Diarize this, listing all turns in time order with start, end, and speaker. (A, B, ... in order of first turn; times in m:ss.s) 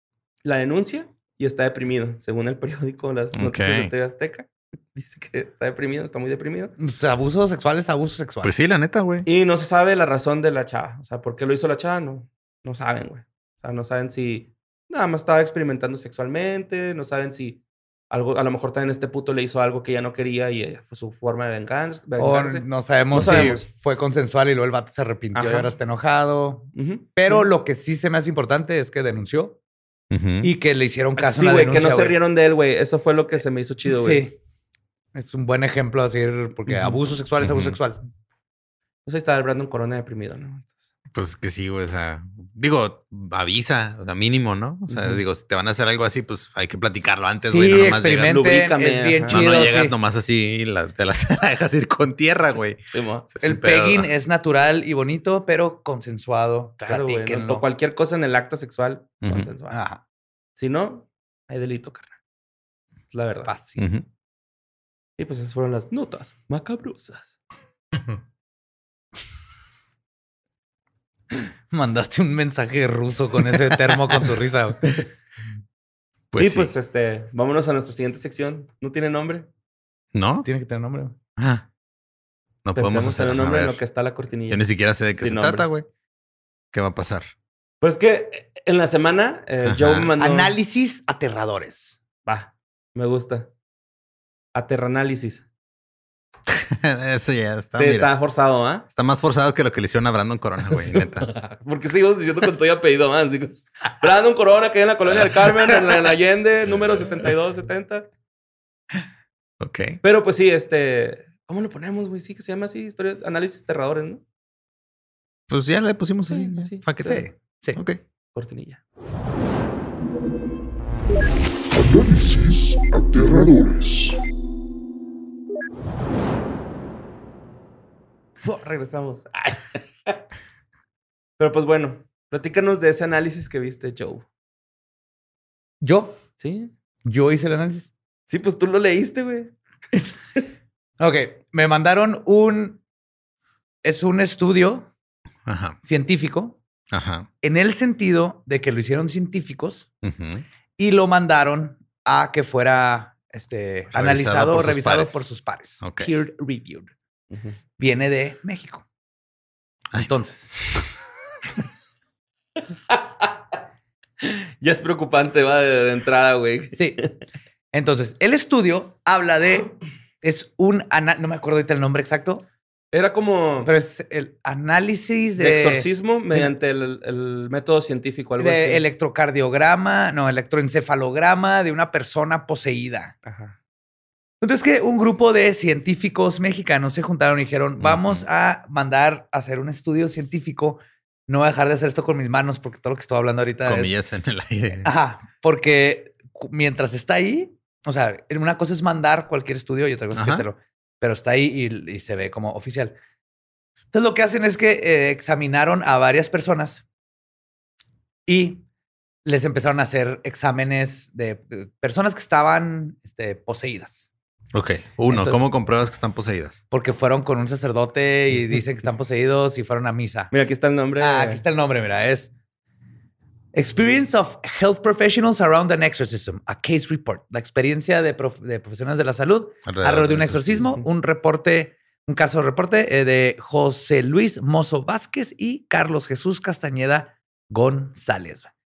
0:00.4-0:06.7 A
0:03.4-0:03.9 B
0:06.8-0:08.5 C
0:08.4-0:09.3 B
0:09.3-0:17.6 A
0:18.1-0:23.6 A
0:22.2-0:29.6 C
0:23.2-0:23.6 B
0:25.4-0:25.7 A
0:26.7-0:27.5 A
0:30.1-0:30.5 B
0:30.4-0:32.2 C
0:31.2-0:34.2 A
0:33.9-0:34.4 C
0:35.1-0:38.0 C
0:36.7-0:37.0 A
0:37.4-0:37.8 B
0:39.1-0:40.8 A
0:41.1-0:48.4 B
0:44.9-0:45.2 A
0:47.5-0:49.9 C
0:47.9-0:49.7 A
0:49.3-0:54.1 B
0:52.9-0:53.3 A
0:53.4-0:57.6 C
0:56.9-0:59.8 A
0:59.2-0:59.5 B
0:59.7-1:00.0 C
1:00.6-1:02.2 A
1:03.1-1:03.5 A
1:03.4-1:03.8 C
1:03.8-1:04.1 B
1:05.2-1:07.4 A
1:11.7-1:15.0 C
1:16.3-1:16.7 B
1:16.4-1:19.5 A
1:20.1-1:20.5 B
1:20.4-1:21.2 C
1:21.4-1:21.7 B
1:22.6-1:23.8 B
1:22.8-1:25.7 A
1:24.5-1:25.9 B
1:26.7-1:27.3 B
1:27.8-1:30.6 A
1:29.6-1:30.1 B
1:30.2-1:32.0 C
1:32.3-1:33.5 A
1:34.6-1:35.4 A
1:36.5-1:38.1 B
1:37.8-1:38.8 A
1:38.9-1:41.3 B
1:40.7-1:48.1 A
1:45.1-1:45.8 B
1:49.6-1:50.0 B
1:50.0-1:54.2 A
1:55.5-1:57.2 B
1:56.3-1:57.2 A
1:57.0-1:57.8 C
1:58.3-1:58.8 A
2:01.8-2:04.2 D
2:08.4-2:10.2 A
2:11.4-2:14.2 A
2:15.8-2:16.2 C
2:16.4-2:16.7 A
2:17.1-2:17.9 C
2:18.3-2:19.5 A
2:21.0-2:22.8 C
2:23.8-2:24.9 C
2:25.5-2:25.8 B
2:25.8-2:26.6 C
2:26.9-2:27.3 B
2:27.4-2:29.9 C
2:30.0-2:30.4 B
2:30.8-2:36.9 C
2:33.9-2:35.3 B
2:35.8-2:36.1 B
2:37.8-2:38.8 C
2:40.0-2:40.5 C
2:44.2-2:47.1 A
2:46.8-2:47.0 C
2:47.7-2:52.4 C
2:52.9-2:53.7 A
2:53.6-2:56.5 C
2:55.4-2:58.8 A
2:58.4-3:03.1 C
3:03.2-3:03.6 A
3:04.4-3:13.9 C
3:07.8-3:08.2 B
3:13.7-3:14.9 B
3:14.8-3:23.0 C
3:20.2-3:20.4 B
3:23.9-3:26.8 C
3:28.3-3:28.6 C
3:29.2-3:34.0 C
3:34.5-3:36.6 B
3:35.1-3:35.4 C
3:36.7-3:40.3 C
3:40.3-3:41.4 A
3:41.0-3:42.3 C
3:43.5-3:58.5 C
3:49.7-3:50.7 B